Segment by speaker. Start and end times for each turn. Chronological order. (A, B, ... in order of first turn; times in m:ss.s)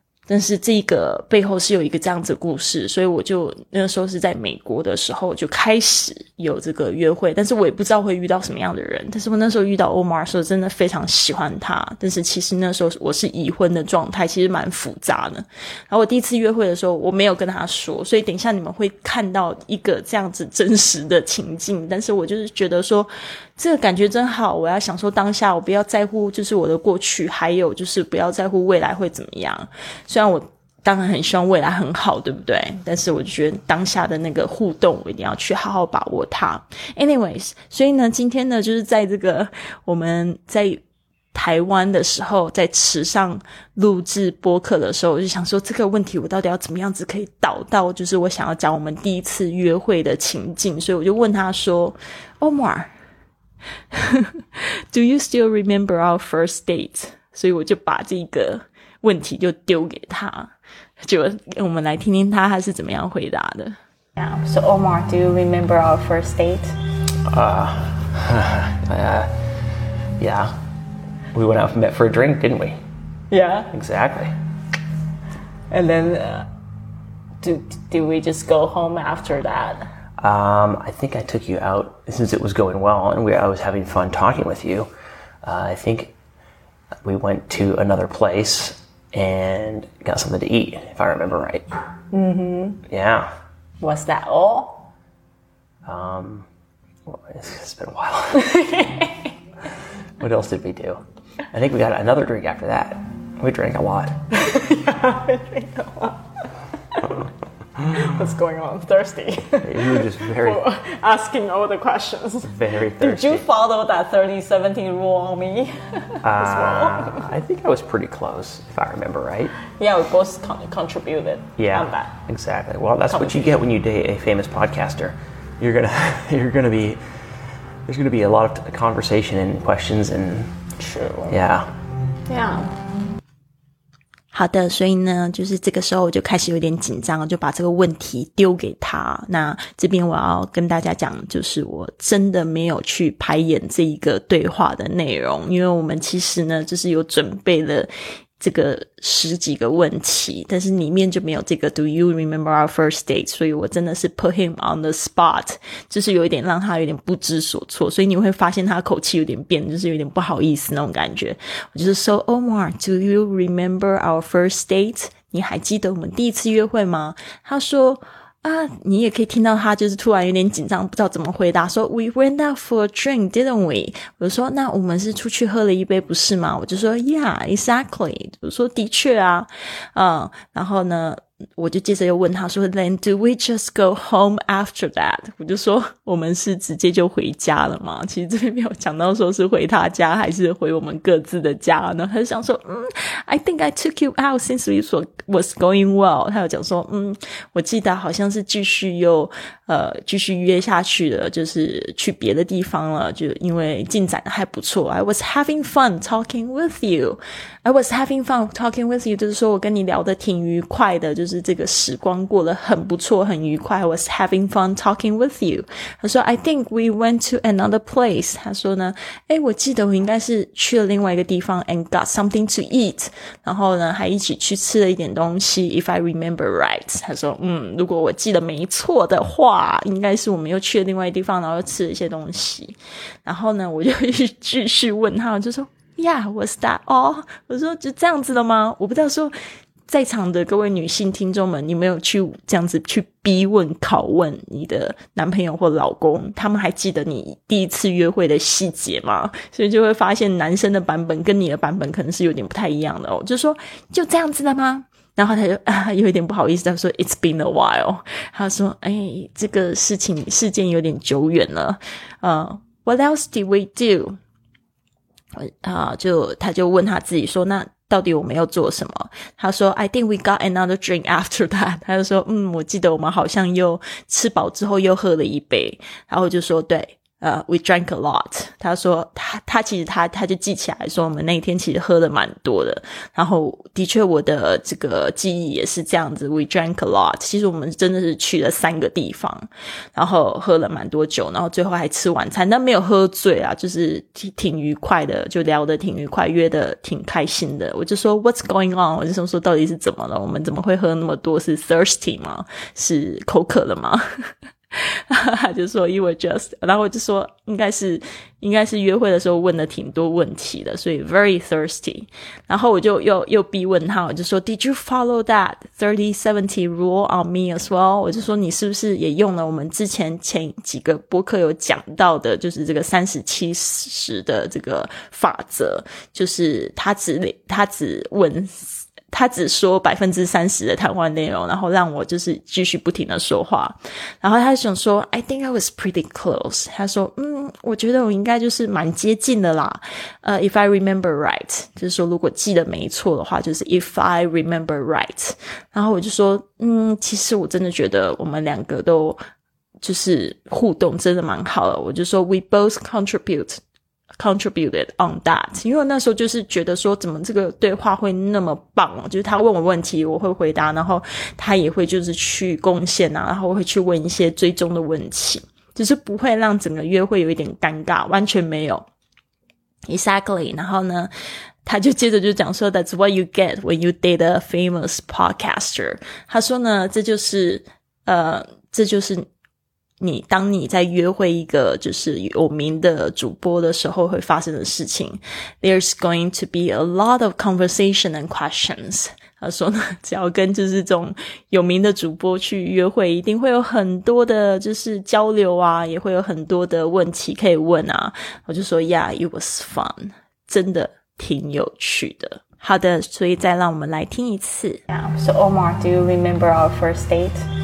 0:00.3-0:40.8 A
0:41.3-0:52.9 A
0:53.9-1:03.8 A
1:04.2-1:06.7 B
1:07.3-1:09.6 C
1:10.2-1:10.6 C
1:11.3-1:12.8 C
1:13.3-1:13.7 B
1:13.7-1:14.3 C
1:15.7-1:16.5 B
1:17.4-1:19.9 B
1:20.2-1:24.9 C
1:25.4-1:26.1 C
1:27.0-1:31.7 C
1:32.1-1:32.8 B
1:32.9-1:33.3 C
1:33.8-1:34.9 B
1:35.8-1:36.5 C
1:37.1-1:38.6 C
1:38.4-1:39.3 B
1:40.2-1:44.2 C
1:44.3-1:46.3 B
1:46.9-1:47.2 B
1:47.8-1:57.3 B
1:49.6-1:50.7 C
1:52.5-1:53.5 C
1:56.2-1:59.6 C
1:59.8-2:02.2 B
2:01.6-2:07.0 C
2:03.1-2:03.5 B
2:07.9-2:10.5 C
2:10.8-2:11.4 B
2:11.3-2:11.7 C
2:12.3-2:12.8 B
2:14.3-2:27.9 A
2:28.4-3:59.3 A
3:59.9-4:24.2 A
4:25.4-5:49.2 A
5:49.8-5:53.6 A
5:54.2-6:08.9 A
6:09.9-6:11.1 A
6:11.6-6:19.3 A
6:20.0-6:44.8 A
6:44.9-6:47.4 B